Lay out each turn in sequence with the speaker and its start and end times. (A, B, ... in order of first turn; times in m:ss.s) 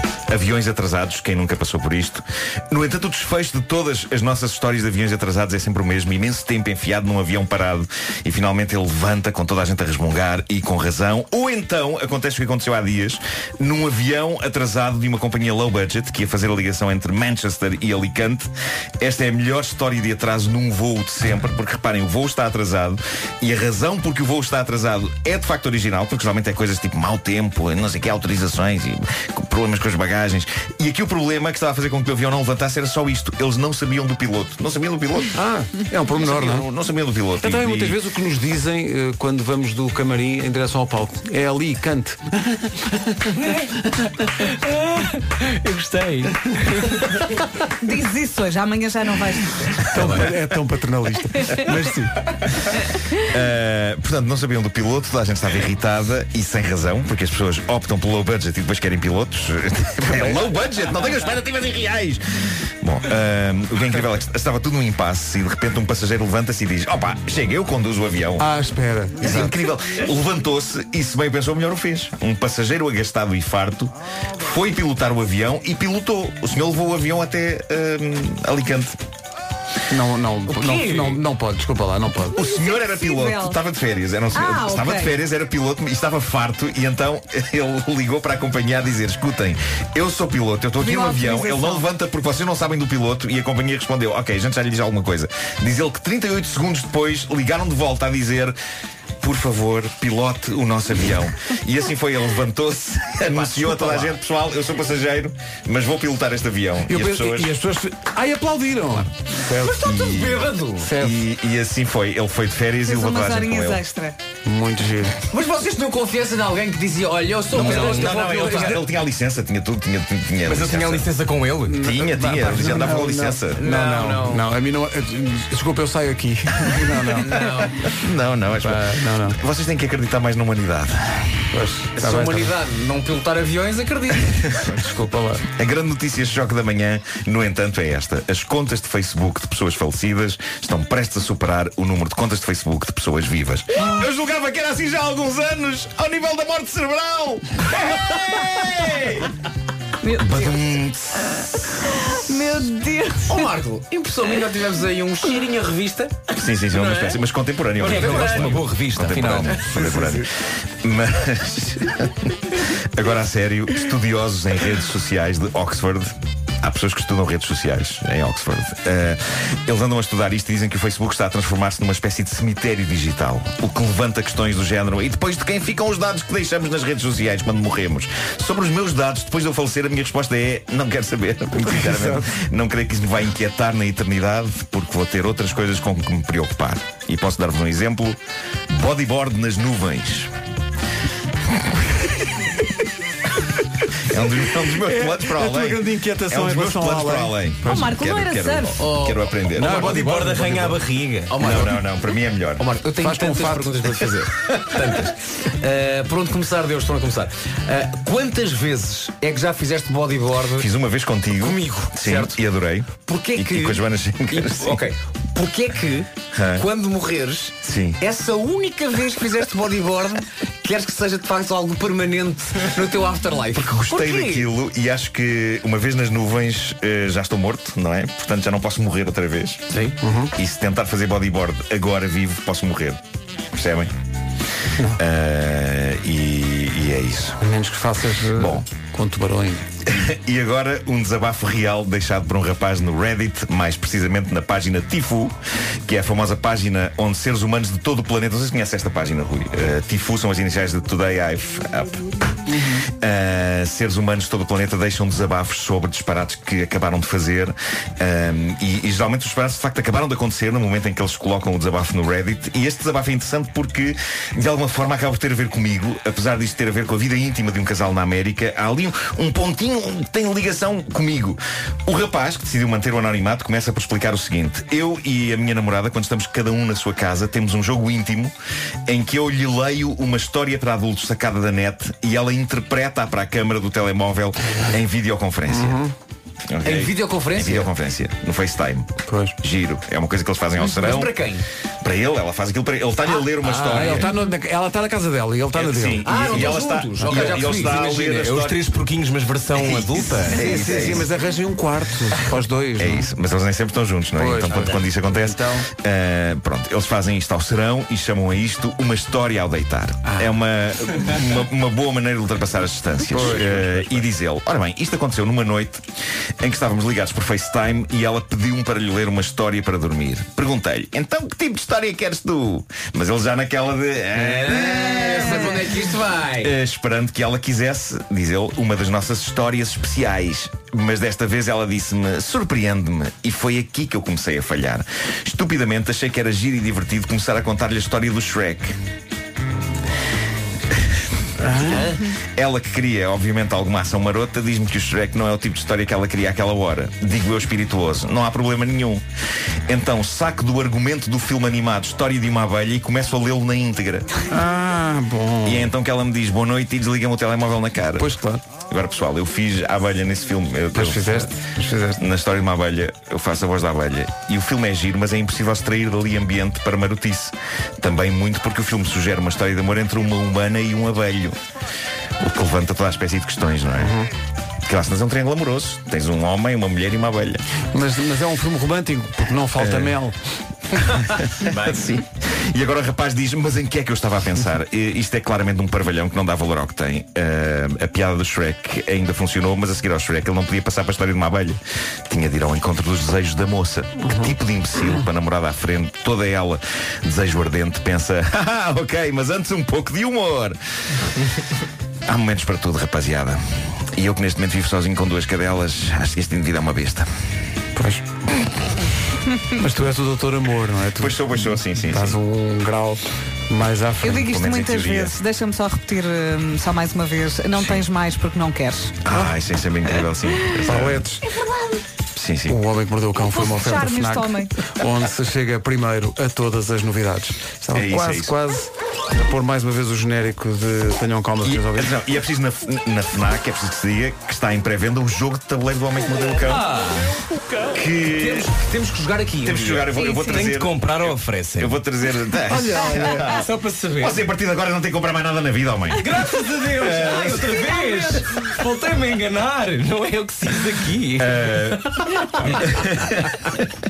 0:00.3-0:35.4 A
0:35.4-0:36.7 B
0:36.2-0:38.0 A
0:37.4-0:43.5 B
0:44.4-0:47.1 C
0:47.8-0:49.8 D
0:49.9-0:52.3 B
0:50.0-0:50.3 C
0:53.1-1:08.5 A
1:00.1-1:00.5 B
1:08.4-1:09.5 B
1:09.2-1:19.0 A
1:19.9-1:22.4 B
1:20.5-1:21.2 E
1:22.3-1:38.6 A
1:22.4-1:23.6 D
1:24.3-1:25.2 D
1:30.8-1:31.9 D
1:39.2-1:47.6 A
1:46.9-1:50.2 B
1:49.7-1:51.0 E
1:49.9-1:50.4 A
1:50.8-1:51.2 B
1:51.0-1:53.8 A
1:52.9-1:54.2 D
1:54.4-1:55.2 B
1:55.3-1:58.9 E
1:57.5-2:01.1 A
1:57.5-1:58.4 C
2:00.5-2:01.8 C
2:01.7-2:07.5 B
2:01.8-2:03.6 A
2:03.6-2:04.4 E
2:07.2-2:07.9 E
2:07.9-2:11.5 A
2:08.6-2:09.4 B
2:11.5-2:12.5 B
2:12.0-2:14.5 E
2:14.6-2:15.5 B
2:15.6-2:29.3 A
2:30.0-2:30.5 D
2:30.2-2:31.8 A
2:32.0-2:33.5 D
2:33.3-2:37.2 E
2:36.3-2:40.3 A
2:37.8-2:38.7 E
2:37.8-2:39.7 C
2:39.7-2:40.2 B
2:40.8-3:08.2 A
3:01.7-3:02.2 B
3:08.7-3:10.3 A
3:14.1-3:20.0 A
3:14.7-3:17.4 B
3:17.6-3:18.8 D
3:18.8-3:21.8 E
3:19.6-3:20.8 B
3:19.9-3:21.4 C
3:21.4-3:22.6 A
3:22.6-3:30.7 E
3:23.0-3:23.9 B
3:30.6-3:34.8 A
3:31.4-3:32.4 E
3:33.0-3:44.5 E
3:36.3-3:36.7 A
3:37.6-3:38.0 A
3:43.6-3:49.6 A
3:50.0-3:50.3 B
3:50.4-3:53.0 A
3:53.5-3:53.9 A
3:55.0-3:57.4 A
3:57.4-3:59.7 B
3:58.4-3:58.6 A
3:59.9-4:12.0 A
4:12.5-4:12.9 B
4:12.9-4:38.3 A
4:38.9-4:45.8 A
4:45.5-4:45.9 B
4:46.5-4:48.9 A
4:46.6-4:47.7 E
4:49.1-4:49.4 B
4:49.4-4:51.2 A
4:50.6-4:51.5 E
4:51.8-4:54.1 A
4:53.1-4:54.0 E
4:53.6-4:56.1 B
4:55.6-4:58.6 A
4:56.0-4:58.2 E
4:57.6-5:00.5 C
4:59.6-5:01.1 A
5:00.3-5:03.1 B
5:02.8-5:15.8 A
5:04.2-5:05.7 B
5:10.1-5:10.3 B
5:13.1-5:14.0 B
5:16.4-5:25.8 A
5:24.2-5:26.5 E
5:26.4-5:38.8 A
5:41.4-5:41.9 B
5:41.7-5:49.0 A
5:49.7-5:54.1 A
5:54.3-5:55.7 B
5:55.4-6:01.3 A
5:58.0-5:58.5 B
6:00.7-6:02.0 B
6:02.0-6:11.4 A
6:12.2-6:13.9 A
6:13.8-6:14.1 B
6:14.7-6:17.4 A
6:17.7-6:20.2 B
6:19.6-6:20.0 A
6:21.0-6:40.6 A
6:34.0-6:34.3 B
6:42.1-6:43.4 A
6:43.9-6:47.1 A
6:47.8-6:48.1 B
6:49.6-6:54.3 B
6:51.0-6:52.2 A
6:54.0-6:59.0 D
6:54.2-6:55.2 A
6:59.0-7:01.0 A
7:00.6-7:01.2 B
7:02.2-7:02.6 A
7:02.5-7:11.9 B
7:03.2-7:04.5 D
7:07.7-7:08.3 A
7:11.4-7:16.7 A
7:16.5-7:17.2 C
7:17.7-7:18.5 A
7:18.1-7:20.0 E
7:19.4-7:23.5 A
7:20.0-7:20.3 D
7:20.2-7:21.8 C
7:22.5-7:23.2 B
7:23.3-7:24.2 C
7:24.0-7:26.1 A
7:26.0-7:31.5 C
7:26.5-7:28.3 E
7:26.8-7:27.6 A
7:31.2-7:33.5 A